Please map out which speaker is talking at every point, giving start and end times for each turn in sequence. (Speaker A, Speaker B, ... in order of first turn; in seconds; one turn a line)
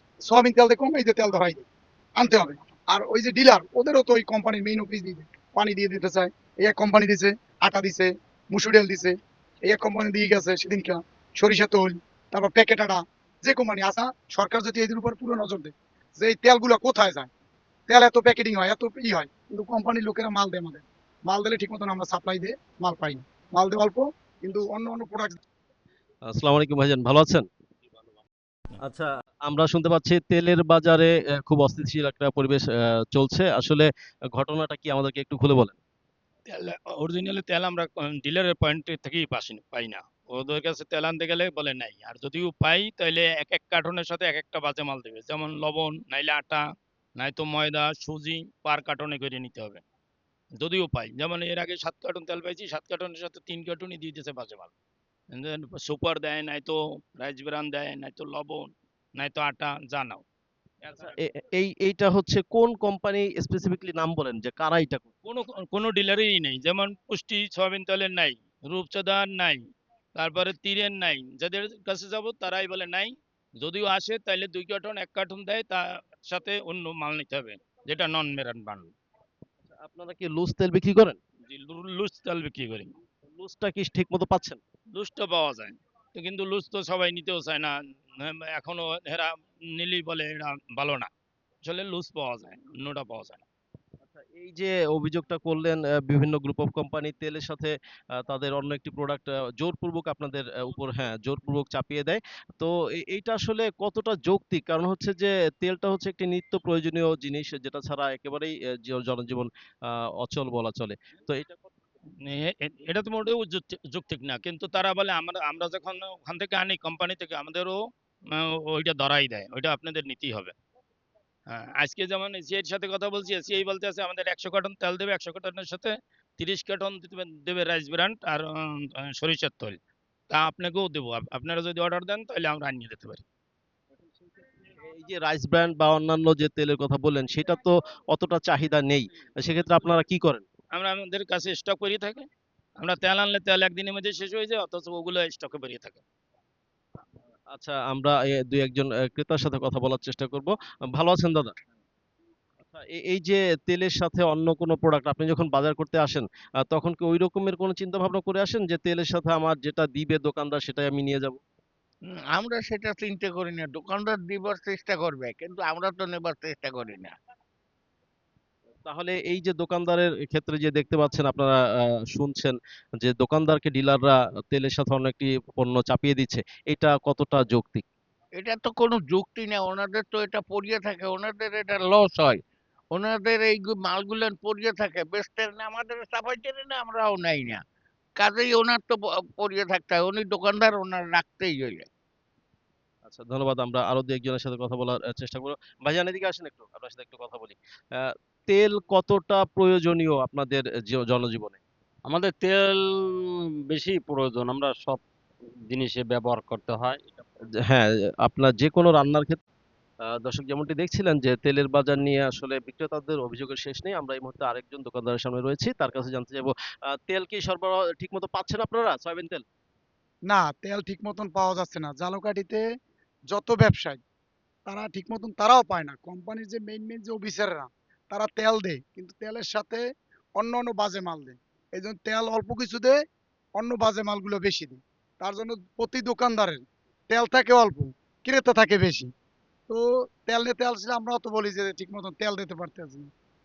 Speaker A: 0.2-1.6
Speaker A: 2.2-9.1
Speaker A: 9.7-17.3
Speaker A: 17.9-25.4
Speaker B: 26.3-27.5
Speaker B: 28.8-35.8
Speaker C: 36.5-46.6
Speaker C: 47.2-49.8
Speaker C: 50.6-54.7
Speaker C: 55.3-60.2
Speaker C: 60.8-61.1
Speaker B: 61.2-65.1
Speaker C: 65.2-69.6
Speaker C: 70.2-78.9
Speaker B: 79.7-81.2
Speaker C: 81.5-82.9
Speaker B: 83.3-84.6
Speaker C: 85.0-91.1
Speaker C: 91.6-93.4
Speaker B: 94.1-111.6
Speaker C: 112.2-117.8
Speaker C: 118.3-120.5
Speaker C: 121.5-129.8
Speaker C: 130.3-133.2
Speaker B: 134.7-140.4
Speaker C: 140.7-142.3
Speaker C: 142.8-146.0
Speaker B: 147.5-151.6
Speaker B: 152.7-161.4
Speaker D: 162.1-167.2
Speaker B: 168.8-177.8
Speaker D: 178.4-182.4
Speaker D: 182.9-187.6
Speaker D: 188.2-191.9
Speaker B: 193.1-201.6
Speaker E: 202.1-205.0
Speaker E: 205.7-207.2
Speaker B: 207.7-209.4
Speaker B: 210.1-219.4
Speaker A: 220.3-222.6
Speaker A: 223.3-224.0
Speaker A: 224.7-229.8
Speaker A: 230.4-233.0
Speaker A: 233.6-239.1
Speaker A: 239.7-243.1